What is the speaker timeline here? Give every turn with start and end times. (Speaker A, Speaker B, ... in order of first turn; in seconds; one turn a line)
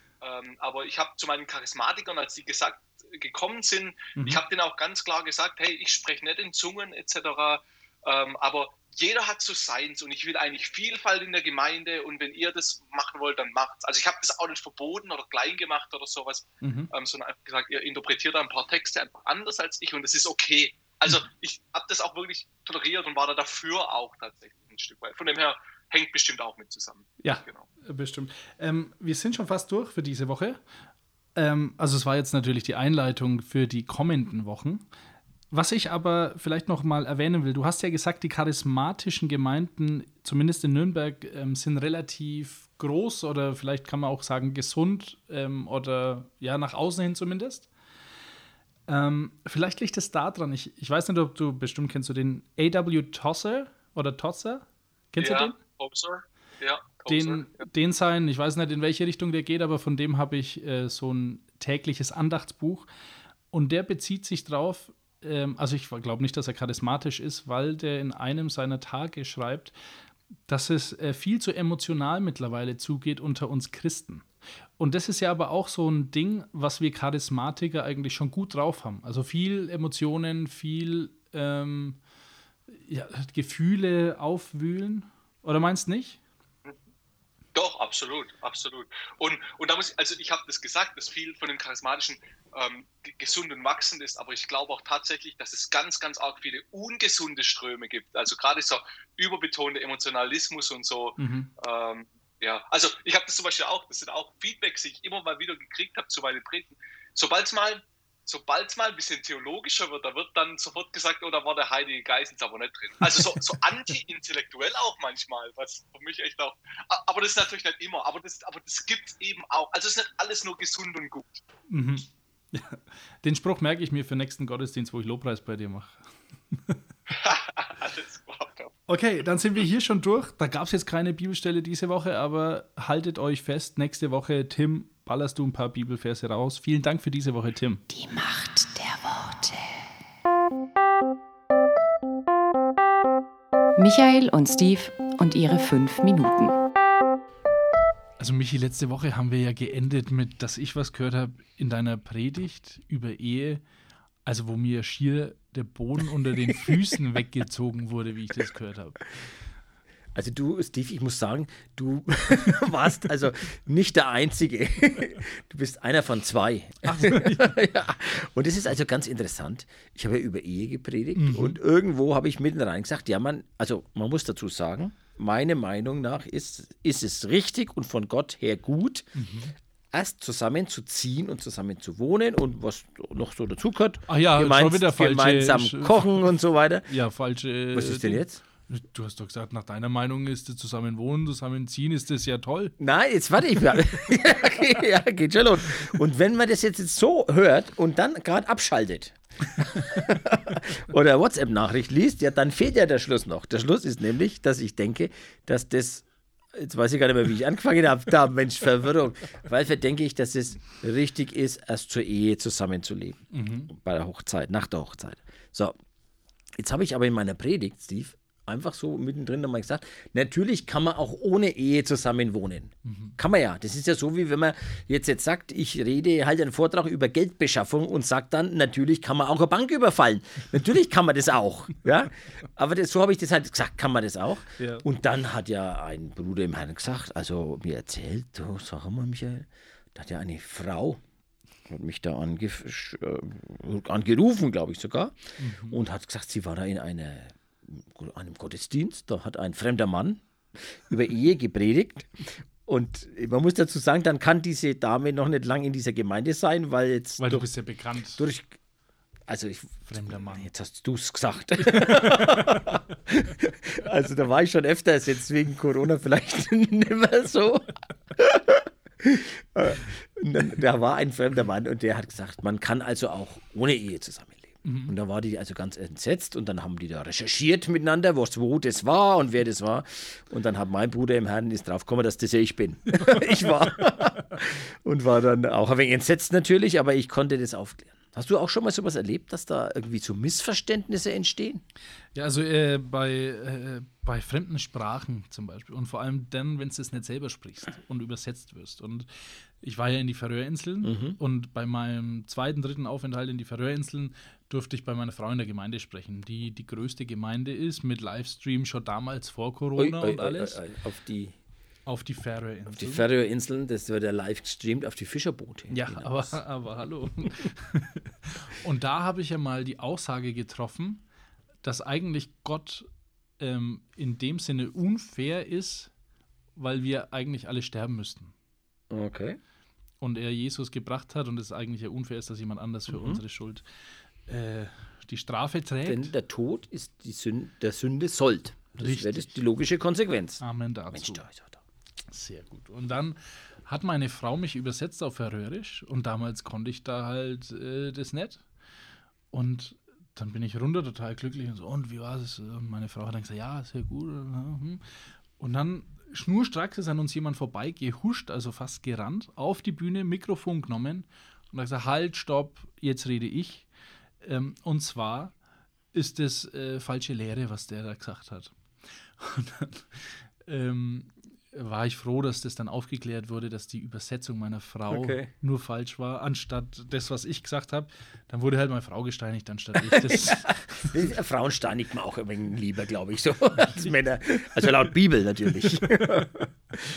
Speaker A: 0.2-27.7
Speaker B: 4.2-4.4
Speaker B: 16.6-16.9
Speaker B: 27.2-30.6
Speaker B: 31.4-34.8
Speaker B: 35.5-47.7
Speaker B: 48.9-55.6
Speaker A: 55.2-57.7
Speaker B: 57.1-62.9
Speaker B: 63.5-69.7
Speaker B: 70.5-74.3
Speaker B: 74.8-82.0
Speaker B: 82.8-86.2
Speaker A: 87.5-121.4
Speaker B: 101.2-101.5
Speaker B: 121.7-126.0
Speaker B: 126.5-126.8
Speaker A: 127.1-128.7
Speaker B: 128.9-137.8
Speaker C: 137.9-139.9
Speaker C: 143.8-146.5
Speaker B: 148.2-153.6
Speaker B: 154.2-159.1
Speaker D: 160.1-179.1
Speaker B: 166.8-167.5
Speaker B: 171.2-171.6
Speaker B: 179.2-179.5
Speaker D: 179.9-186.9
Speaker B: 184.1-186.3
Speaker B: 186.8-192.7
Speaker D: 187.7-188.4
Speaker D: 192.8-215.7
Speaker B: 213.3-213.7
Speaker D: 216.6-241.0
Speaker B: 222.8-223.1
Speaker B: 234.6-234.8
Speaker D: 241.7-257.5
Speaker B: 245.4-245.8
Speaker B: 257.2-258.2
Speaker D: 258.2-258.6
Speaker D: 259.3-291.6
Speaker B: 259.8-260.5
Speaker B: 274.6-274.9
Speaker B: 292.1-299.1
Speaker B: 299.6-310.6
Speaker D: 300.8-301.2
Speaker D: 309.8-311.3
Speaker B: 311.9-313.0
Speaker D: 312.7-316.3
Speaker B: 315.7-321.0
Speaker B: 321.6-322.9
Speaker B: 323.4-325.9
Speaker B: 326.6-328.3
Speaker D: 328.9-329.4
Speaker B: 330.0-333.6
Speaker D: 332.9-333.2
Speaker B: 334.3-336.1
Speaker D: 335.9-341.6
Speaker B: 338.8-339.3
Speaker B: 340.4-341.2
Speaker B: 342.1-348.4
Speaker B: 349.3-354.8
Speaker B: 355.4-363.7
Speaker B: 364.2-365.3
Speaker B: 365.9-368.5
Speaker B: 369.2-380.9
Speaker D: 374.9-375.3
Speaker D: 379.9-386.3
Speaker B: 385.9-386.3